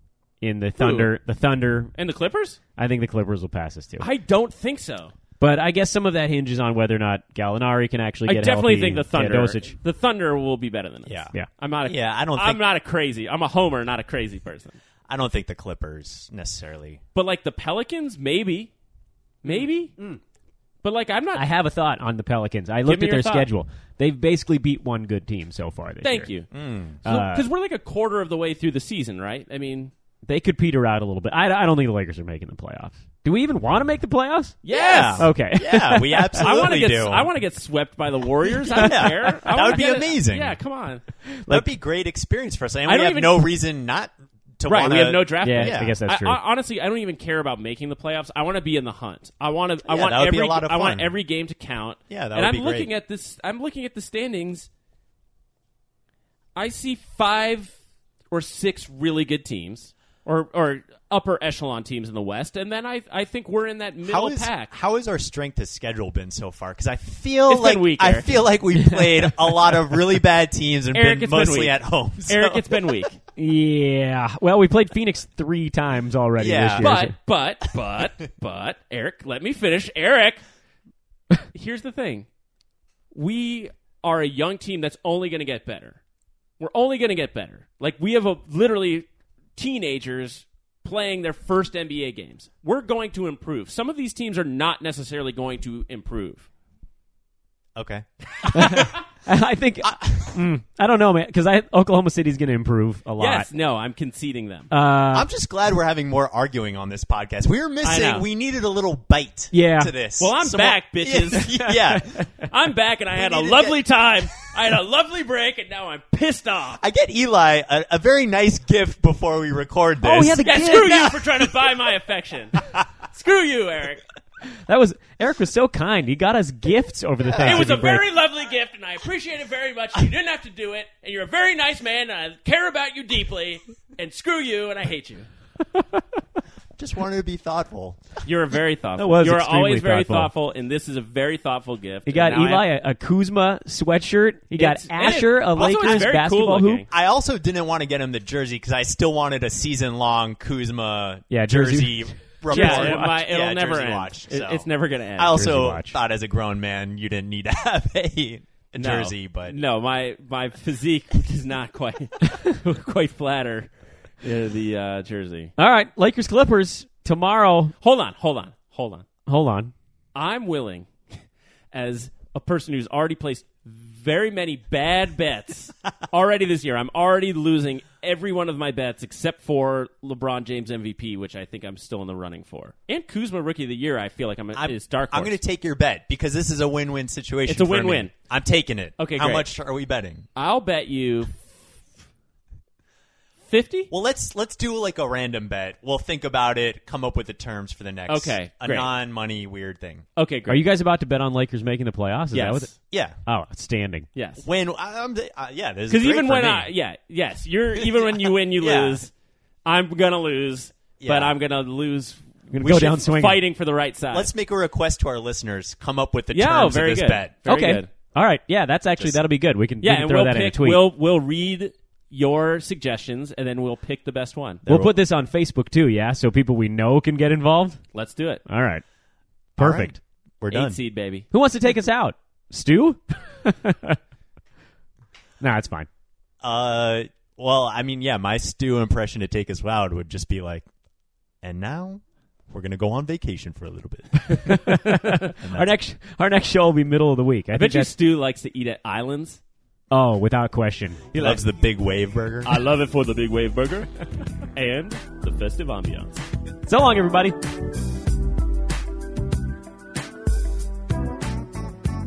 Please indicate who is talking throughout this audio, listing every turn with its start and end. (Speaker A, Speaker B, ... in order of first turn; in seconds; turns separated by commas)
Speaker A: 0.4-1.9, Speaker B: 0.8-1.1, Speaker B: 2.0-2.6, Speaker A: 2.8-4.1, Speaker B: 4.0-5.1, Speaker A: 5.4-9.8, Speaker B: 8.3-14.8, Speaker C: 11.1-11.3, Speaker C: 11.8-12.6, Speaker C: 15.1-17.0, Speaker B: 17.1-18.7, Speaker B: 19.4-19.9, Speaker B: 20.8-21.5, Speaker A: 21.3-26.3, Speaker B: 22.9-23.5, Speaker B: 26.0-26.5, Speaker C: 26.5-27.0, Speaker A: 27.0-27.5, Speaker B: 27.1-29.9, Speaker A: 30.2-36.8, Speaker B: 34.6-35.3, Speaker C: 34.7-37.3, Speaker B: 36.4-41.0, Speaker A: 38.7-39.8, Speaker C: 38.7-40.6, Speaker A: 41.3-41.7, Speaker C: 41.5-46.0, Speaker B: 42.9-43.5, Speaker B: 44.6-54.7, Speaker A: 45.4-46.4, Speaker C: 49.9-51.1, Speaker C: 52.1-52.9, Speaker B: 56.6-57.7, Speaker B: 58.3-64.7, Speaker C: 64.0-73.0, Speaker B: 67.5-68.4, Speaker A: 68.8-69.8, Speaker B: 70.9-71.8, Speaker B: 72.3-73.2, Speaker A: 73.3-77.2, Speaker C: 76.4-76.9, Speaker B: 76.8-80.4, Speaker B: 81.5-82.3, Speaker B: 83.1-86.0, Speaker B: 86.6-96.5, Speaker C: 97.8-99.0, Speaker A: 98.5-103.5, Speaker C: 99.8-100.4, Speaker B: 103.2-104.7, Speaker A: 104.7-105.3, Speaker C: 105.1-112.2, Speaker B: 107.8-108.3, Speaker A: 109.5-109.9, Speaker B: 110.2-111.6, Speaker A: 111.6-112.3, Speaker B: 112.5-116.8, Speaker C: 113.2-113.8, Speaker C: 116.8-121.0, Speaker A: 120.0-121.4, Speaker B: 120.4-122.6, Speaker B: 123.1-124.0, Speaker A: 124.5-128.1, Speaker C: 127.3-128.0, Speaker B: 127.4-135.3, Speaker A: 135.8-136.0, Speaker C: 136.8-138.2, Speaker B: 138.2-142.7, Speaker A: 139.0-140.3, Speaker A: 142.1-146.8, Speaker B: 144.6-146.9, Speaker C: 145.6-146.2, Speaker C: 146.9-159.6, Speaker A: 151.3-153.2, Speaker B: 152.5-155.5, Speaker A: 155.3-156.0, Speaker B: 158.8-163.7, Speaker B: 164.2-165.5, Speaker A: 165.6-167.8, Speaker B: 167.8-169.1, Speaker A: 169.3-169.7, Speaker B: 170.2-170.9, Speaker B: 171.7-185.4, Speaker C: 184.6-190.3, Speaker B: 187.5-188.1, Speaker B: 189.0-189.5, Speaker B: 190.4-191.3, Speaker B: 193.5-193.9, Speaker C: 193.9-200.1, Speaker B: 198.1-198.9, Speaker B: 200.2-200.7, Speaker A: 200.5-202.7, Speaker B: 202.3-202.7, Speaker C: 202.9-203.2, Speaker A: 203.3-204.1, Speaker B: 204.2-204.4, Speaker C: 204.4-206.7, Speaker B: 205.9-209.1, Speaker C: 207.8-209.1, Speaker B: 209.7-214.3, Speaker C: 211.0-211.3, Speaker A: 212.5-213.4, Speaker C: 212.7-212.9, Speaker C: 214.1-217.4, Speaker B: 216.3-217.9, Speaker A: 217.5-220.8, Speaker B: 219.8-224.9, Speaker A: 224.7-227.8, Speaker B: 227.9-228.4, Speaker A: 228.5-228.8, Speaker A: 229.6-230.0, Speaker C: 229.6-230.8, Speaker B: 230.5-231.3, Speaker A: 231.3-234.0, Speaker A: 235.4-235.9, Speaker C: 236.4-240.7, Speaker C: 241.4-244.8, Speaker A: 244.3-247.9, Speaker B: 244.8-245.3, Speaker C: 245.4-245.7, Speaker B: 247.5-249.4, Speaker A: 249.9-251.3, Speaker C: 251.2-252.6, Speaker B: 252.4-253.9, Speaker B: 254.6-256.2, Speaker A: 256.7-257.4